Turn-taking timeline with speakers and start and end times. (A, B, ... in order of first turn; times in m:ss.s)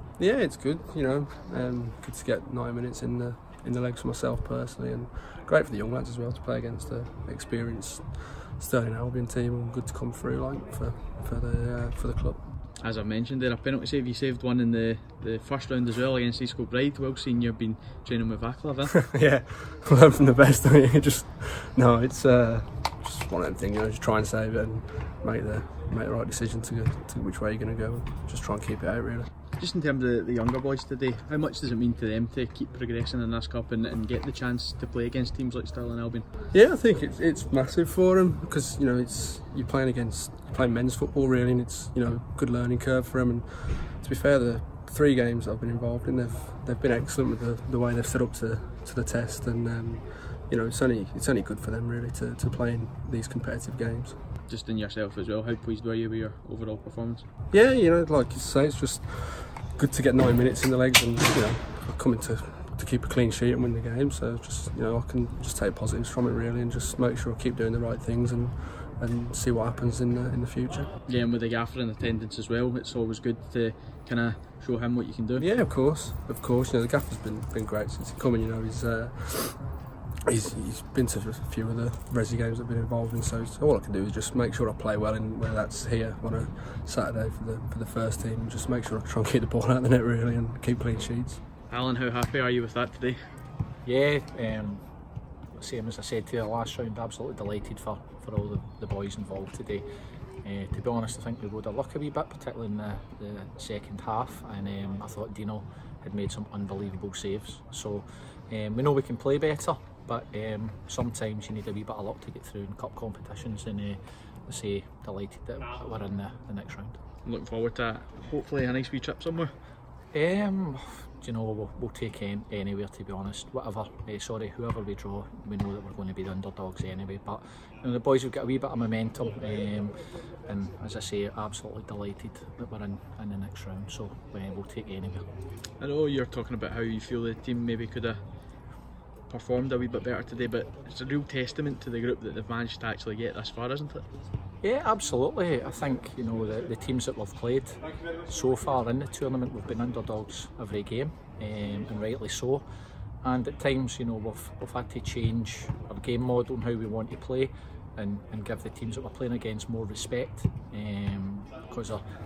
0:00.2-0:12.4 A
0:12.8-0:19.0 B
0:19.0-0:29.3 A
0:29.6-0:36.3 B
0:36.5-0:54.2 A
0:54.5-0:57.3 B
0:57.5-1:10.9 A
1:11.1-1:15.5 B
1:15.4-1:19.7 A
1:20.3-1:31.4 A
1:31.7-1:33.2 B
1:33.8-1:34.8 C
1:35.6-1:39.9 C
1:40.4-1:57.0 C
1:57.3-1:59.5 B
2:00.1-2:15.3 C
2:15.8-2:18.2 B
2:19.3-2:24.1 B
2:24.6-2:32.6 C
2:33.2-2:42.0 C